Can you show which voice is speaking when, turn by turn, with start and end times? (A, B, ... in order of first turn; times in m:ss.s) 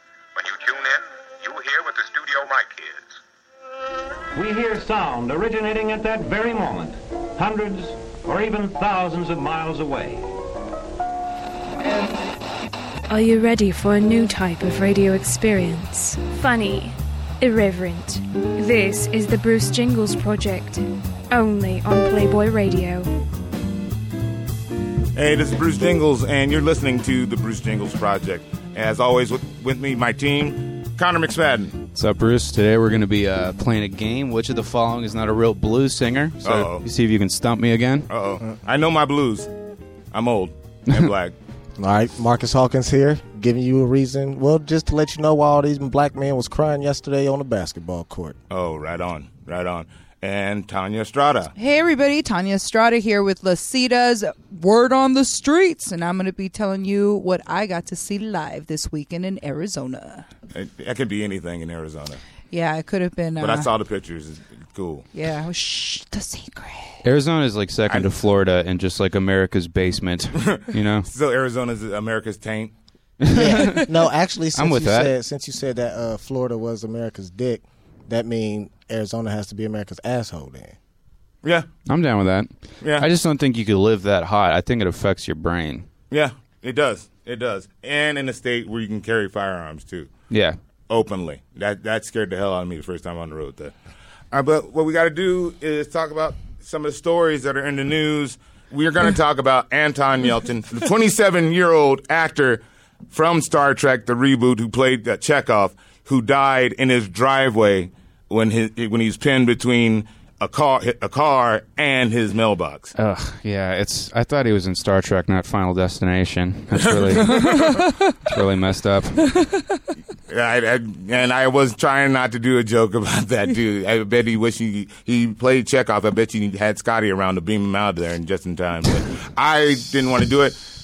0:00.3-0:03.2 A
0:04.3-0:10.2 B
0:13.1-0:23.1 C
0:25.1-0:31.8 D
0:31.9-0:38.1 E
0:36.4-0:36.8 D
0:38.1-0:39.5 D
0:40.1-0:41.3 D
0:41.8-0:48.3 F
0:48.5-0:51.5 D
0:51.6-1:00.3 G
1:00.5-1:02.2 D
1:02.5-1:03.7 G
1:03.4-1:05.0 D
1:05.1-1:07.0 G
1:07.0-1:11.1 E
1:10.4-1:12.7 D
1:13.2-1:13.9 E
1:13.3-1:20.8 F
1:14.5-1:15.1 E
1:21.9-1:25.8 E
1:22.8-1:23.1 D
1:26.1-1:30.1 D
1:30.3-1:30.6 E
1:30.9-1:33.7 D
1:34.3-1:52.9 D
1:53.0-1:59.3 E
1:56.7-1:57.8 D
1:57.3-1:58.0 G
1:59.3-1:59.6 G
2:00.3-2:10.6 D